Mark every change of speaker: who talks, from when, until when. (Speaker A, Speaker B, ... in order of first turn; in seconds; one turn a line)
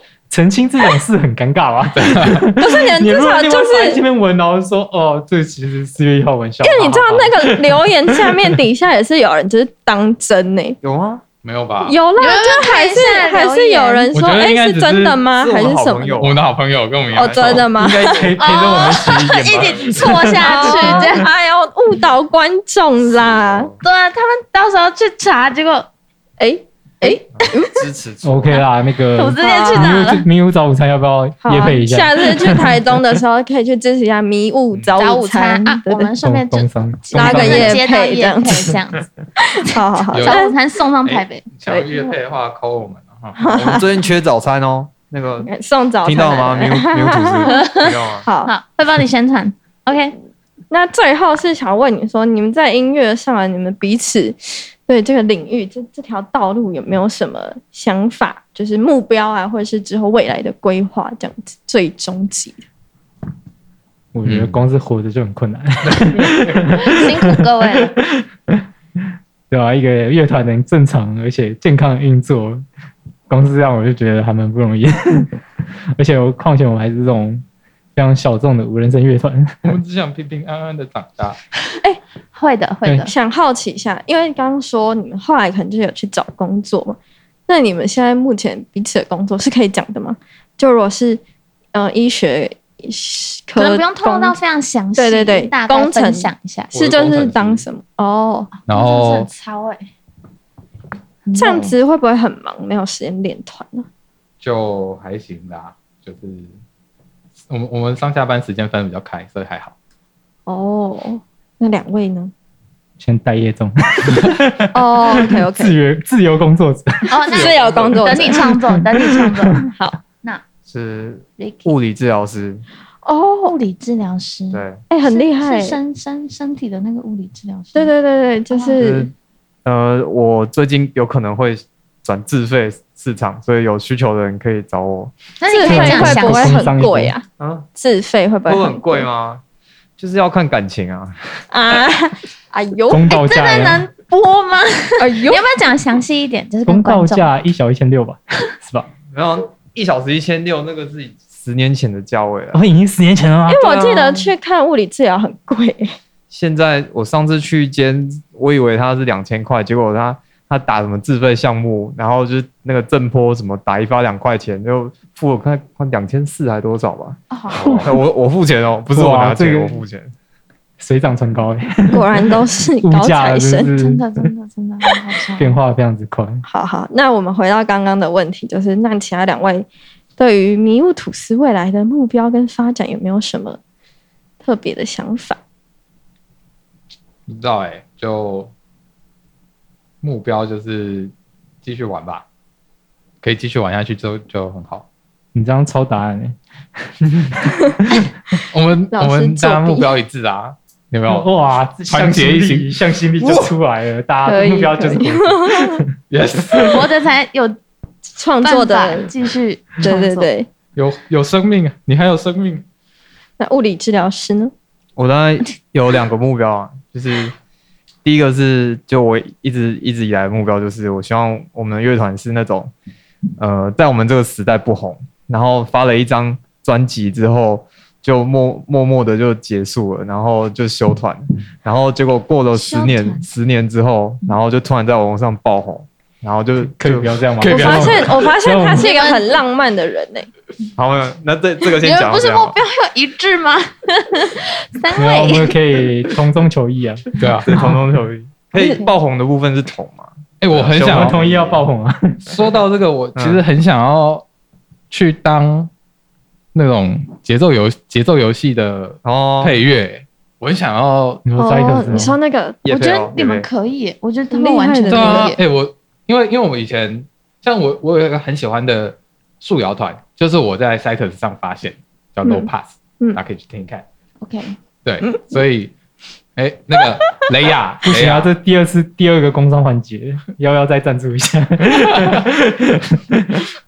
Speaker A: 0.3-8.3
Speaker B: 1.9-2.5
Speaker C: 2.6-4.0
Speaker C: 6.6-10.8
Speaker D: 10.8-11.2
Speaker B: 11.4-12.0
Speaker C: 11.8-16.3
Speaker E: 12.2-14.1
Speaker B: 14.1-15.2
Speaker D: 15.3-16.5
Speaker B: 16.2-18.3
Speaker D: 17.1-17.7
Speaker C: 17.1-18.3
Speaker A: 17.7-21.1
Speaker E: 18.3-21.3
Speaker B: 19.4-20.3
Speaker C: 20.4-23.7
Speaker D: 23.1-23.8
Speaker E: 23.8-25.9
Speaker C: 26.4-27.8
Speaker D: 27.3-28.6
Speaker A: 28.2-32.9
Speaker E: 29.1-30.2
Speaker C: 29.4-29.9
Speaker C: 31.4-36.1
Speaker E: 35.0-41.5
Speaker A: 36.2-37.8
Speaker C: 37.1-38.7
Speaker C: 39.5-40.5
Speaker B: 40.1-40.4
Speaker B: 41.0-43.4
Speaker C: 41.6-42.1
Speaker C: 43.4-43.9
Speaker D: 43.5-45.5
Speaker C: 45.4-48.5
Speaker D: 46.0-48.2
Speaker E: 47.5-50.1
Speaker C: 50.7-62.6
Speaker A: 64.1-68.6
Speaker B: 64.2-64.5
Speaker B: 65.9-66.6
Speaker E: 66.7-67.9
Speaker A: 69.5-72.6
Speaker A: 73.3-75.3
Speaker A: 76.0-77.4
Speaker A: 78.0-79.6
Speaker B: 79.6-81.5
Speaker E: 82.3-83.1
Speaker A: 82.8-83.1
Speaker C: 83.0-91.2
Speaker C: 91.7-94.4
Speaker E: 93.6-96.7
Speaker C: 94.9-98.5
Speaker B: 96.7-97.7
Speaker B: 98.7-99.3
Speaker E: 98.7-99.9
Speaker E: 101.2-101.7
Speaker C: 101.4-103.9
Speaker B: 104.4-106.5
Speaker B: 107.5-109.7
Speaker C: 110.5-112.3
Speaker A: 113.0-117.2
Speaker C: 114.7-115.8
Speaker E: 117.1-120.4
Speaker C: 117.3-118.6
Speaker D: 117.4-118.2
Speaker A: 118.5-119.5
Speaker C: 119.6-120.0
Speaker D: 120.7-122.6
Speaker E: 121.4-121.7
Speaker C: 123.0-123.5
Speaker E: 123.4-127.9
Speaker D: 124.5-124.8
Speaker C: 124.9-125.8
Speaker C: 127.7-129.1
Speaker E: 128.5-128.8
Speaker D: 128.8-129.1
Speaker D: 129.6-135.2
Speaker E: 135.4-136.7
Speaker C: 135.4-137.2
Speaker A: 135.6-137.1
Speaker D: 137.4-137.7
Speaker C: 137.8-139.1
Speaker D: 138.4-139.4
Speaker D: 140.0-141.2
Speaker C: 141.5-143.2
Speaker A: 142.9-143.9
Speaker E: 143.0-147.3
Speaker C: 145.0-145.5
Speaker A: 146.7-148.9
Speaker D: 149.1-152.6
Speaker A: 152.5-153.6
Speaker C: 153.5-155.9
Speaker D: 153.6-154.3
Speaker D: 156.3-167.2
Speaker E: 167.3-167.8
Speaker D: 167.7-170.1
Speaker A: 168.9-169.8
Speaker A: 170.8-174.3
Speaker C: 171.9-173.7
Speaker E: 173.7-175.6
Speaker A: 175.4-176.4
Speaker C: 176.5-179.7
Speaker C: 180.2-183.6
Speaker C: 184.4-185.4
Speaker B: 187.3-188.5
Speaker B: 190.0-191.1
Speaker B: 191.6-192.2
Speaker B: 193.2-194.8
Speaker A: 195.3-196.4
Speaker A: 196.9-198.1
Speaker B: 198.5-201.3
Speaker C: 198.9-199.9
Speaker A: 201.1-205.9
Speaker B: 201.9-203.5
Speaker C: 204.2-205.8
Speaker B: 206.1-206.9
Speaker E: 206.6-207.6
Speaker C: 208.2-209.1
Speaker E: 208.4-210.3
Speaker C: 209.8-210.5
Speaker B: 210.8-212.6
Speaker C: 213.4-214.5
Speaker D: 214.9-217.3
Speaker D: 218.0-222.7
Speaker D: 223.4-237.2
Speaker E: 232.5-233.2
Speaker A: 236.6-238.9
Speaker B: 237.4-238.3
Speaker C: 237.5-240.3
Speaker E: 238.7-239.4
Speaker D: 240.8-242.6
Speaker E: 241.6-245.6
Speaker A: 244.9-247.8
Speaker B: 247.2-247.5
Speaker D: 247.4-251.6
Speaker E: 248.5-248.9
Speaker B: 250.4-251.2
Speaker A: 250.8-252.2
Speaker B: 252.2-254.2
Speaker D: 253.2-253.4
Speaker B: 254.9-255.7
Speaker B: 256.5-261.2
Speaker D: 259.0-259.6
Speaker A: 261.2-262.2
Speaker C: 261.4-262.6
Speaker D: 262.6-263.5
Speaker E: 262.7-265.4
Speaker C: 264.3-265.3
Speaker B: 264.9-273.8
Speaker C: 272.2-272.5
Speaker E: 274.2-274.6
Speaker B: 274.8-275.7
Speaker C: 275.0-275.4
Speaker B: 276.4-278.3
Speaker A: 277.8-283.4